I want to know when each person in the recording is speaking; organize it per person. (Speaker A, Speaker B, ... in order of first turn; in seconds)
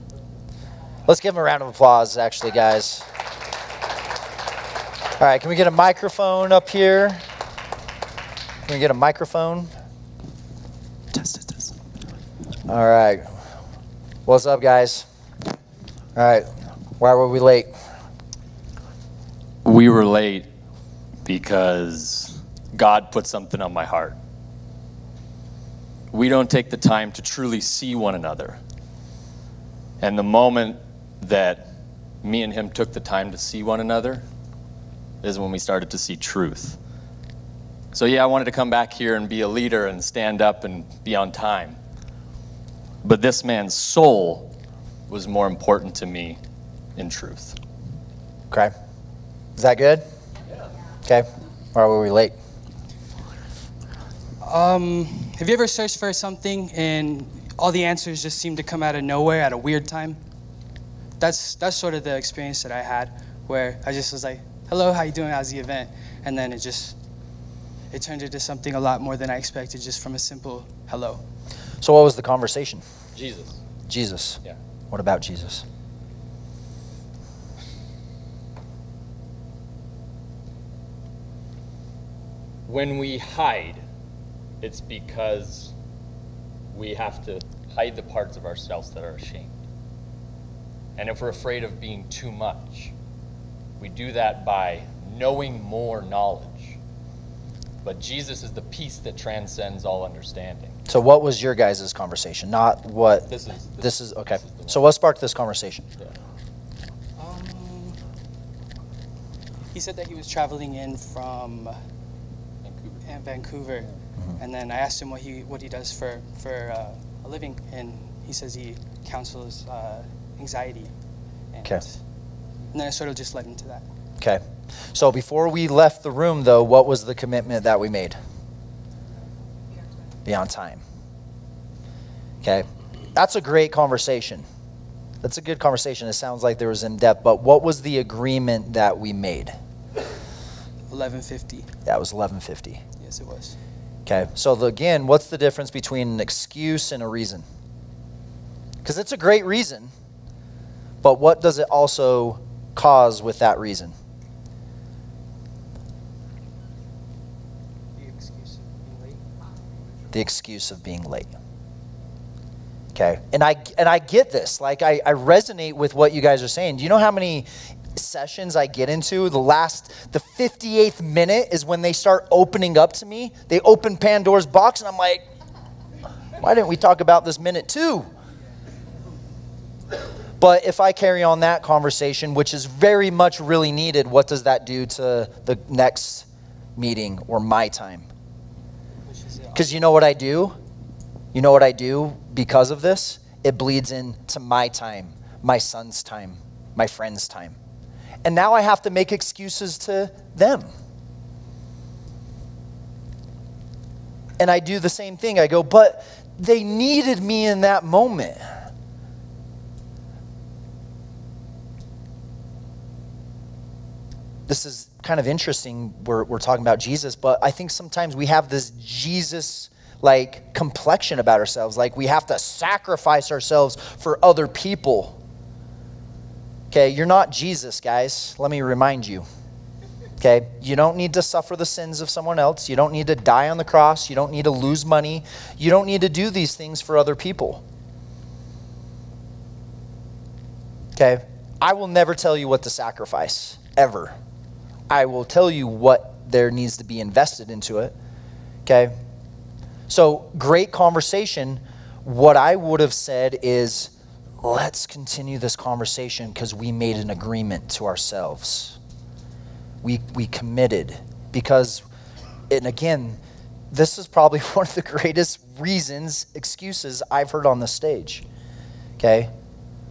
Speaker A: 1.1-3.1, 5.2-7.2, 8.7-9.7, 11.1-11.8, 12.7-13.3, 14.3-15.1, 16.2-17.7, 49.6-50.0, 51.1-52.4, 71.8-72.8, 73.9-75.6, 100.9-103.3, 103.8-105.9, 124.9-128.2, 130.2-130.8, 132.4-134.4, 135.2-139.6, 141.9-142.8, 144.1-147.4, 148.8-149.9, 151.0-153.9, 160.1-161.3, 162.9-175.2, 176.4-178.1, 180.4-188.1, 189.5-190.6, 191.3-197.6, 198.2-200.7, 204.4-208.5, 214.5-225.2, 226.7-229.2, 230.2-237.6, 241.0-244.2, 244.9-247.9, 248.7-248.9, 249.9-258.8, 259.8-261.9, 262.5-263.2, 263.7-268.2, 269.0-269.3
Speaker B: 19.6-20.5, 21.2-24.2, 26.1-28.6, 30.0-31.7, 32.2-34.2, 35.2-36.8, 37.9-41.8, 43.0-44.5, 45.1-46.4, 47.0-47.6, 73.2-73.6, 82.7-83.8, 84.6-85.7, 86.7-89.6, 91.0-92.9, 93.8-96.8, 97.8-100.8, 103.3-104.9, 112.6-113.0
Speaker C: 54.4-60.2, 61.2-67.0, 67.9-71.2, 107.2-108.0, 109.7-111.8, 113.0-120.9, 121.5-122.0, 122.7-123.9, 140.9-141.7, 143.0-143.6, 158.0-159.2, 189.1-189.8